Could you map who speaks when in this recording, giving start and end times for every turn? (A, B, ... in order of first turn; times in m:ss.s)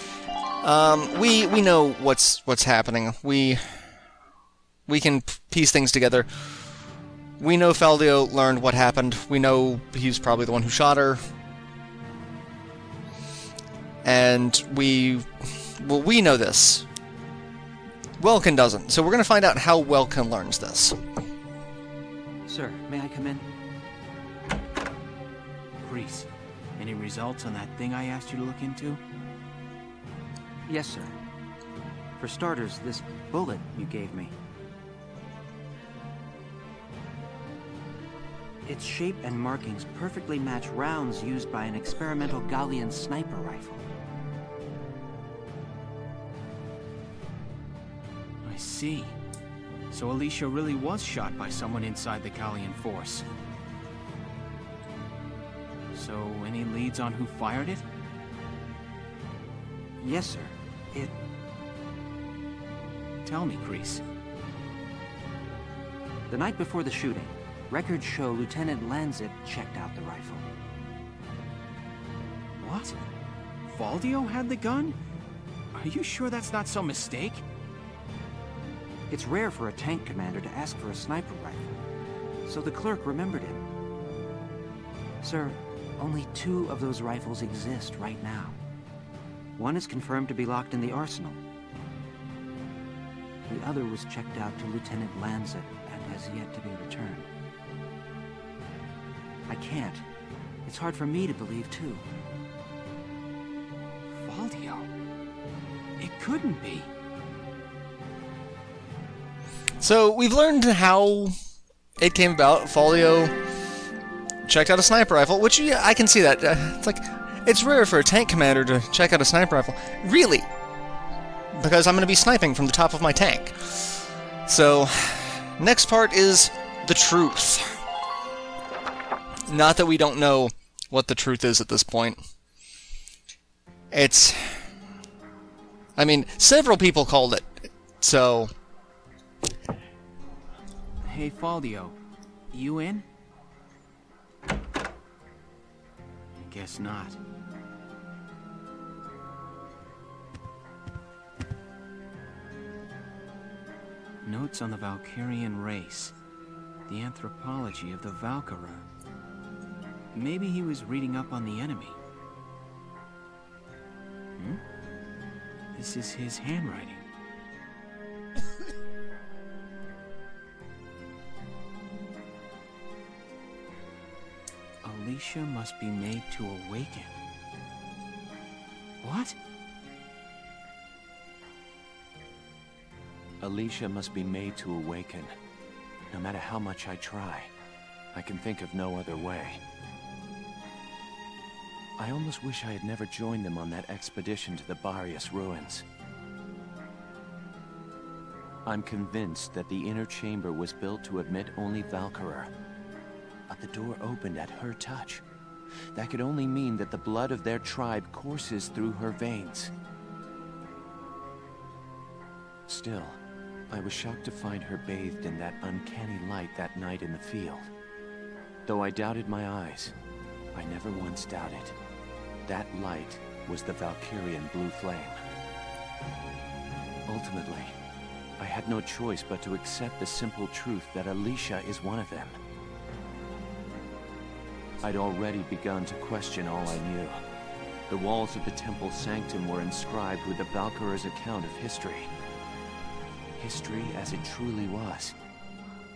0:00.6-0:03.8 A
0:04.9-0:06.5 A
0:07.4-0:11.2 A
0:14.0-0:16.8 A
0:18.2-0:21.0 A
0:22.5-0:23.5 B
0:25.8-0:29.0 C
0:30.7-0:31.2 B
0:32.2-0:34.4 B
0:38.7-0:43.9 B
0:48.4-0:49.1 C
0:49.9-0:53.3 C
0:55.9-0:57.8 C
1:00.0-1:01.2 B
1:03.3-1:04.0 C
1:06.3-1:10.5 B
1:12.6-1:13.0 C
1:13.7-1:15.0 C
1:15.8-1:17.4 C
1:19.1-1:21.8 B
1:22.5-1:23.6 B
1:25.2-1:28.6 B
1:29.6-1:31.4 B
1:33.5-1:37.3 B
1:39.5-1:40.0 B
1:40.7-1:42.0 B
1:44.2-1:44.9 C
1:46.0-1:46.9 C
1:49.8-1:51.3 A
1:52.0-1:53.3 A
1:54.5-2:00.5 A
2:01.5-2:07.8 A
2:09.5-2:12.2 A
2:13.9-2:14.6 A
2:16.0-2:18.5 A
2:21.0-2:22.0 C
2:22.5-2:23.0 C
2:26.4-2:27.2 C
2:34.2-2:36.2 C
2:36.9-2:38.8 C
2:40.1-2:42.0 C
2:44.4-2:44.6 C
2:45.8-2:47.1 C
2:54.8-2:57.2 C
2:59.0-2:59.4 C
3:03.4-3:05.4 D
3:06.1-3:07.5 D
3:08.1-3:09.6 D
3:12.0-3:15.9 D
3:18.7-3:22.5 D
3:23.5-3:25.2 D
3:26.0-3:29.7 D
3:32.7-3:37.7 D
3:38.7-3:40.0 D
3:40.6-3:41.8 D
3:42.5-3:45.2 D
3:47.1-3:47.8 D
3:48.4-3:52.4 D
3:54.8-3:57.2 D
3:57.9-4:02.1 D
4:03.4-4:05.2 D